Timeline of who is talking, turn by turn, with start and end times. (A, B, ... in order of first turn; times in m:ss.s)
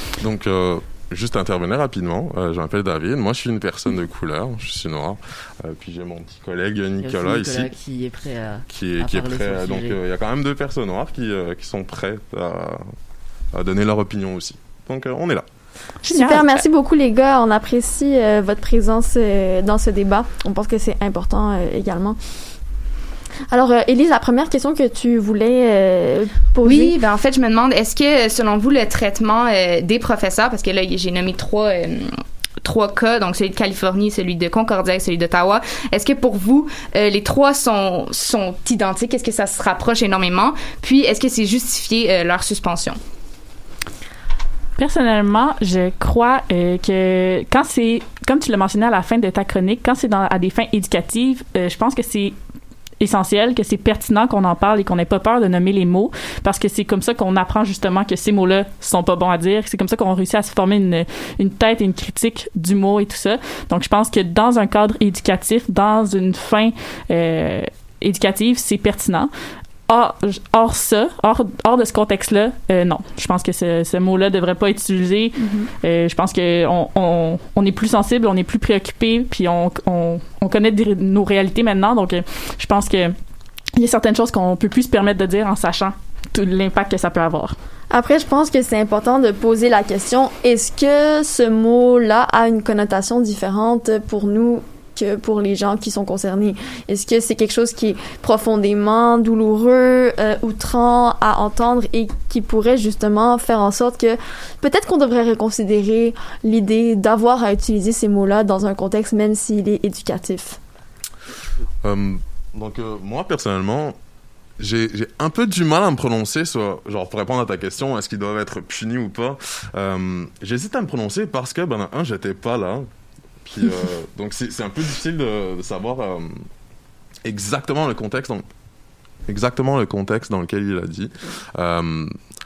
0:00.2-0:07.7 A
0:07.0-0:10.0 B
0:08.7-0:12.9 A
0:13.5-0:15.4 A
0:16.0-0:16.6 C
0:16.1-0:22.2 D
0:23.5-0:27.0 D
0:26.6-0:43.0 E
0:44.8-0:52.4 C
0:53.0-1:09.3 C
1:09.9-1:23.1 C
1:23.8-1:27.6 C
1:27.9-1:50.6 D
1:51.8-1:54.0 A
1:54.6-2:02.9 A
2:03.4-2:06.4 A
2:07.2-2:08.4 A
2:09.3-2:12.1 A